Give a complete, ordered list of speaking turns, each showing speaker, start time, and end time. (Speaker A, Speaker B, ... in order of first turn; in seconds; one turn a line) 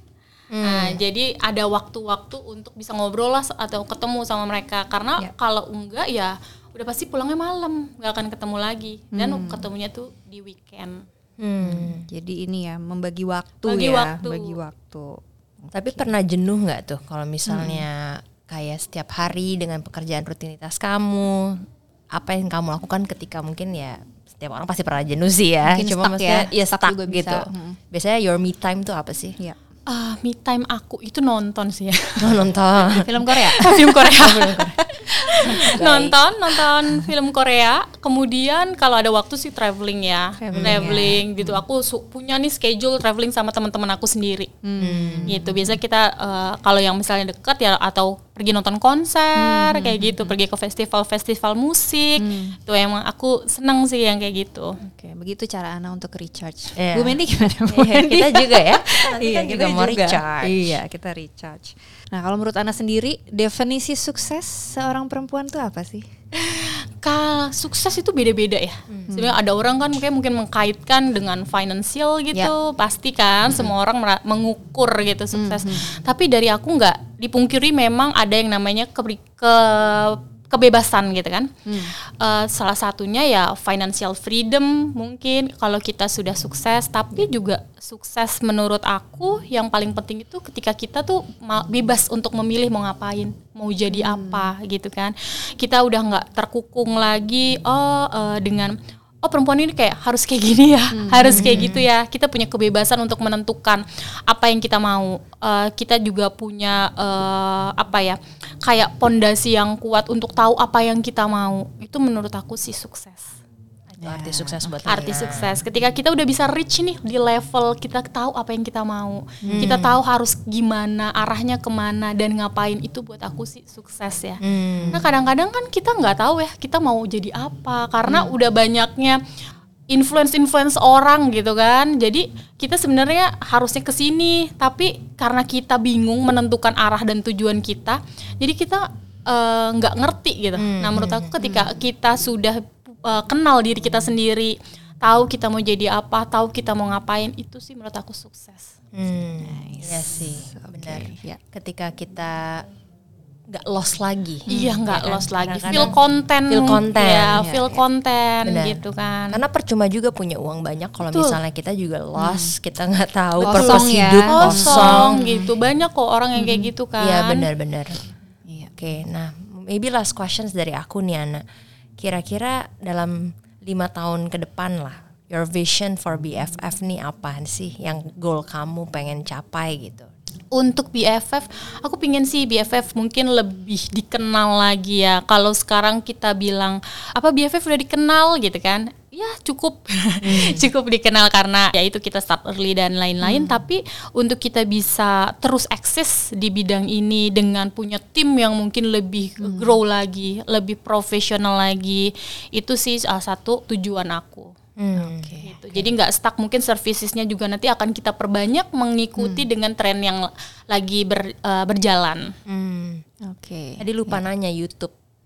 Speaker A: 0.5-1.0
Speaker B: 0.6-11.1
Speaker C: 9.1-9.7
Speaker A: 11.4-12.1
Speaker C: 11.6-16.1
Speaker B: 13.7-14.6
Speaker A: 15.7-29.4
Speaker C: 17.5-17.9
Speaker C: 25.6-27.8
Speaker B: 29.9-32.4
Speaker A: 32.2-33.1
Speaker C: 33.0-35.7
Speaker B: 33.3-34.6
Speaker A: 34.2-34.8
Speaker B: 35.2-44.5
Speaker A: 35.5-36.2
Speaker C: 36.7-37.1
Speaker C: 40.4-41.2
Speaker A: 40.5-41.1
Speaker C: 44.6-45.8
Speaker A: 44.8-45.4
Speaker B: 45.3-54.8
Speaker C: 49.4-50.4
Speaker C: 52.2-52.6
Speaker C: 54.8-66.1
Speaker A: 56.8-60.8
Speaker B: 66.4-81.5
Speaker C: 69.1-69.4
Speaker C: 75.3-75.9
Speaker C: 81.7-81.9
Speaker B: 82.1-113.4
Speaker C: 93.9-94.5
Speaker C: 100.9-101.7
Speaker A: 101.3-101.8
Speaker A: 113.9-115.5
Speaker C: 114.0-115.2
Speaker B: 114.9-124.4
Speaker C: 119.4-119.8
Speaker A: 119.5-120.0
Speaker A: 124.4-125.0
Speaker C: 124.8-125.0
Speaker B: 124.9-129.2
Speaker B: 129.9-148.8
Speaker A: 140.6-141.3
Speaker C: 141.4-141.7
Speaker A: 148.9-152.7
Speaker C: 149.4-151.4
Speaker A: 153.5-155.9
Speaker C: 154.5-154.8
Speaker B: 154.5-159.4
Speaker A: 156.5-157.5
Speaker C: 157.4-157.8
Speaker A: 158.4-165.2
Speaker B: 161.1-161.4
Speaker C: 162.2-162.5
Speaker C: 163.4-165.5
Speaker B: 163.4-167.5
Speaker C: 166.3-166.7
Speaker A: 167.0-168.0
Speaker C: 168.5-168.8
Speaker A: 168.8-171.4
Speaker A: 172.0-180.1
Speaker B: 180.5-204.5
Speaker C: 190.2-190.7
Speaker C: 193.2-193.6
Speaker C: 199.4-199.8
Speaker A: 204.8-205.3
Speaker C: 204.9-205.8
Speaker B: 205.4-212.3
Speaker C: 209.2-209.4
Speaker A: 212.5-213.0
Speaker C: 213.2-214.2
Speaker A: 213.8-214.9